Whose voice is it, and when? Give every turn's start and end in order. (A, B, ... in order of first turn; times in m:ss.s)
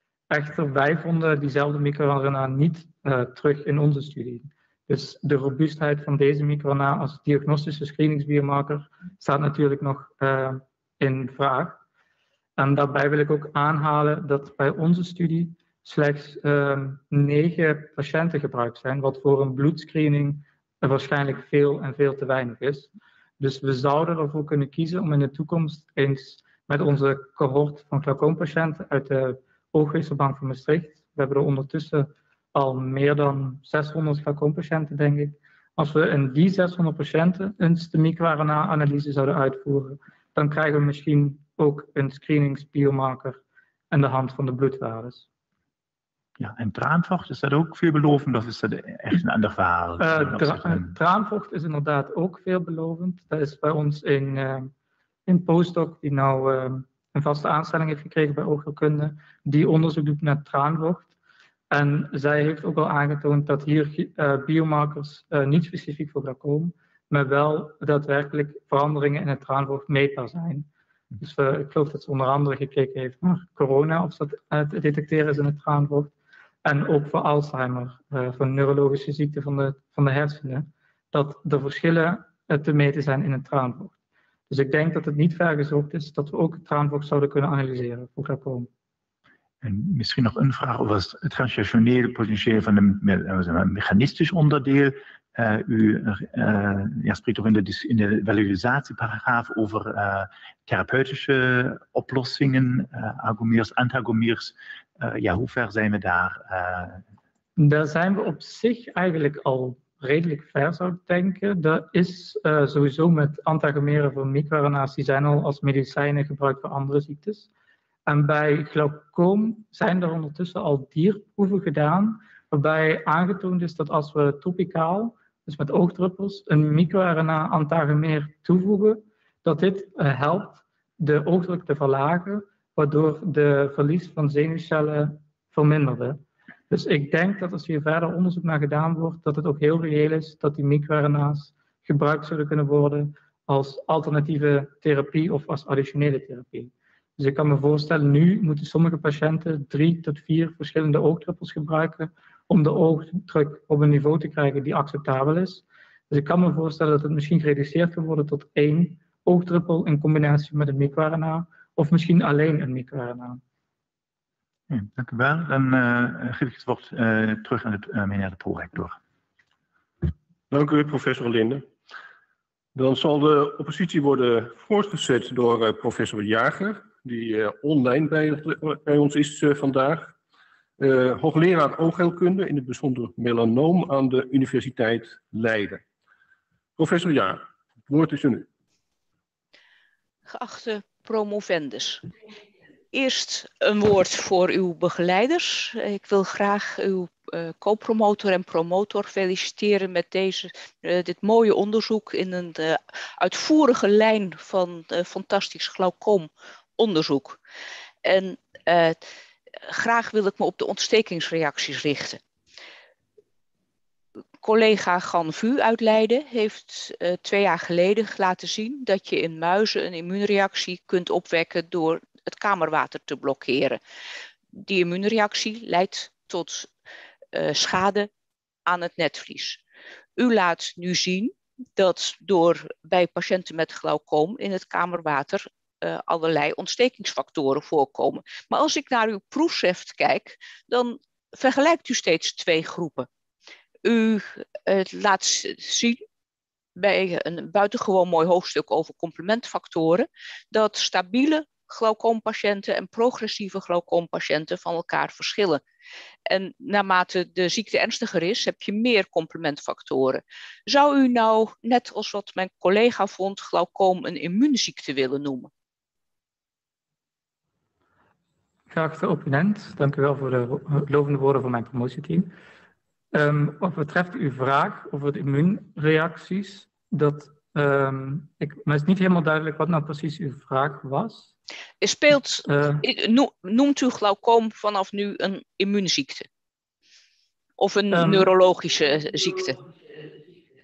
0:00.3-0:11.8 A
0:12.6-0:43.4 A
0:43.9-0:45.2 A
0:46.4-0:50.9 B
0:50.0-0:54.7 A
0:55.3-1:01.1 A
1:01.7-1:10.7 A
1:11.2-1:16.1 A
1:16.6-1:23.9 A
1:24.5-1:28.7 A
1:29.6-1:47.0 B
1:47.6-1:57.5 A
1:58.1-2:43.4 A
2:44.7-2:49.0 B
2:50.5-2:51.6 C
2:52.8-3:00.1 C
3:00.8-3:05.8 C
3:06.8-3:08.5 C
3:10.3-3:12.1 D
3:12.9-3:27.4 D
3:28.0-3:29.0 D
3:29.6-3:32.2 D
3:34.4-3:43.8 D
3:44.5-3:46.7 D
3:47.3-3:48.1 D
3:48.6-3:49.6 D
3:50.2-4:03.1 D
4:03.8-4:06.0 D
4:06.8-4:15.6 D
4:16.3-4:25.5 D
4:28.7-4:32.3 A
4:33.1-4:41.3 A
4:41.8-4:46.3 D
4:42.4-4:42.8 A
4:47.6-4:49.6 D
4:47.9-4:48.3 A